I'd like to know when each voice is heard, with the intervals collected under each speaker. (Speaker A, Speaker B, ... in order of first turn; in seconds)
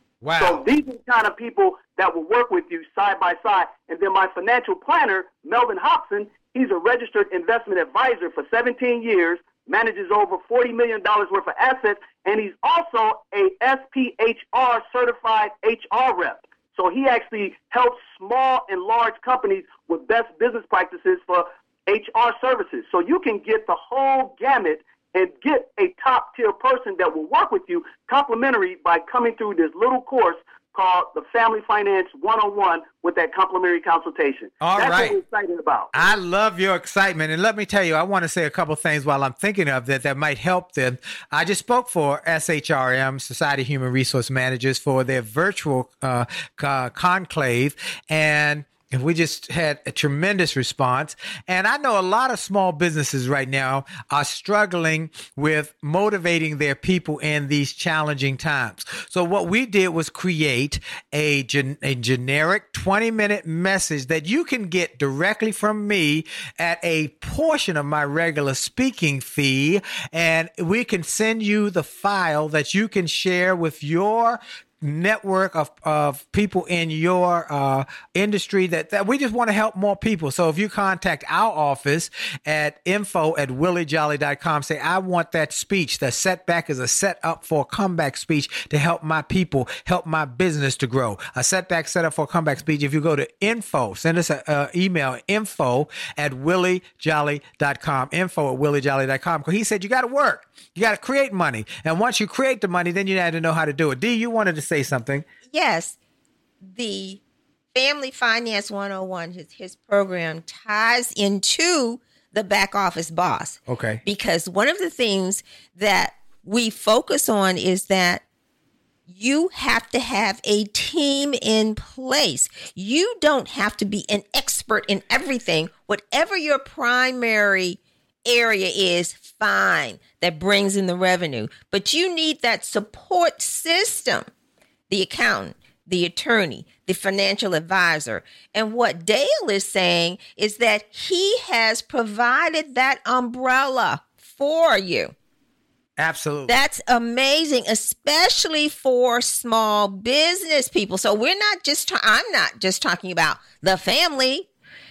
Speaker A: 0.2-0.7, 34.6-35.2, 35.9-105.3, 113.7-114.0, 146.0-146.6
Speaker B: 0.4-35.9
Speaker C: 105.5-106.0, 106.7-107.2, 107.8-118.2, 119.1-134.3, 134.9-145.1, 146.5-154.5